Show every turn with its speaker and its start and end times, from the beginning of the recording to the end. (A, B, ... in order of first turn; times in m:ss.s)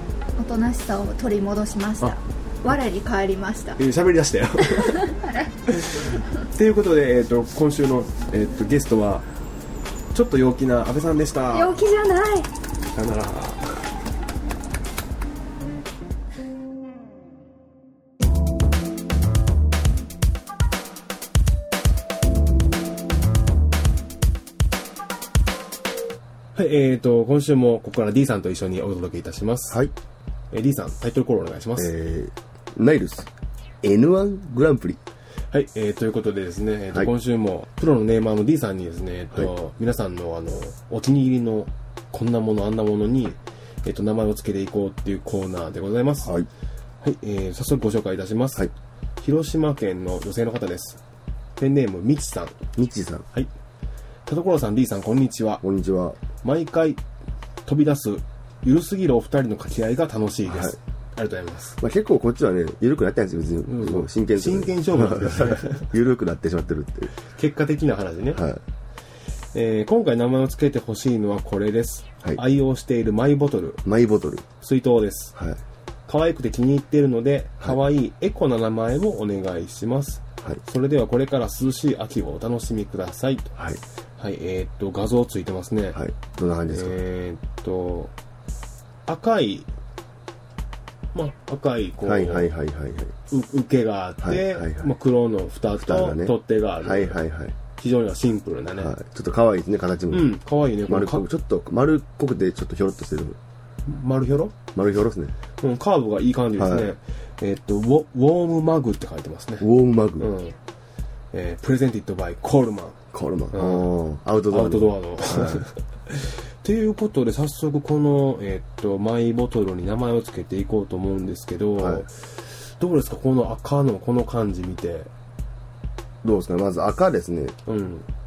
0:00.4-0:03.8 A
0:03.8-0:09.2 B
0:04.7-0:05.5 A
0:10.1-0:11.8 B
0:11.5-0:12.5 A
0:12.9-0:13.8 B
0:26.5-0:29.8 B
0:30.5-0:31.9 B
0:31.8-0:33.3 C
0:33.8-0:35.0 C
0:35.5-0:46.3 B
0:47.0-0:51.0 B
0:51.6-0:52.6 B
0:52.8-0:53.2 C
0:54.2-0:55.6 B
0:55.6-0:56.2 C
0:56.4-0:57.0 B
0:57.6-1:01.8 B
1:00.5-1:00.8 C
1:01.8-1:07.1 C
1:03.6-1:05.9 B
1:07.3-1:08.4 B
1:08.3-1:08.6 C
1:09.5-1:13.8 B
1:13.8-1:14.5 C
1:14.6-1:15.3 B
1:16.1-1:23.5 B
1:24.2-1:26.0 B
1:25.9-1:27.0 C
1:26.7-1:28.1 B
1:29.1-1:29.7 B
1:31.1-1:32.5 B
1:32.0-1:33.1 C
1:33.3-1:37.2 B
1:34.2-1:34.9 C
1:35.8-1:37.6 C
1:37.8-1:38.9 B
1:38.8-1:43.4 C
1:40.1-1:41.2 B
1:43.8-1:44.6 B
1:44.7-1:45.3 C
1:45.6-1:49.7 B
1:46.6-1:46.9 C
1:49.6-1:50.3 C
1:50.2-1:50.6 B
1:51.3-1:53.0 B
1:53.1-1:55.6 C
1:53.5-1:53.9 B
1:54.5-2:05.1 B
2:01.8-2:02.0 C
2:06.2-2:07.5 C
2:07.6-2:08.1 B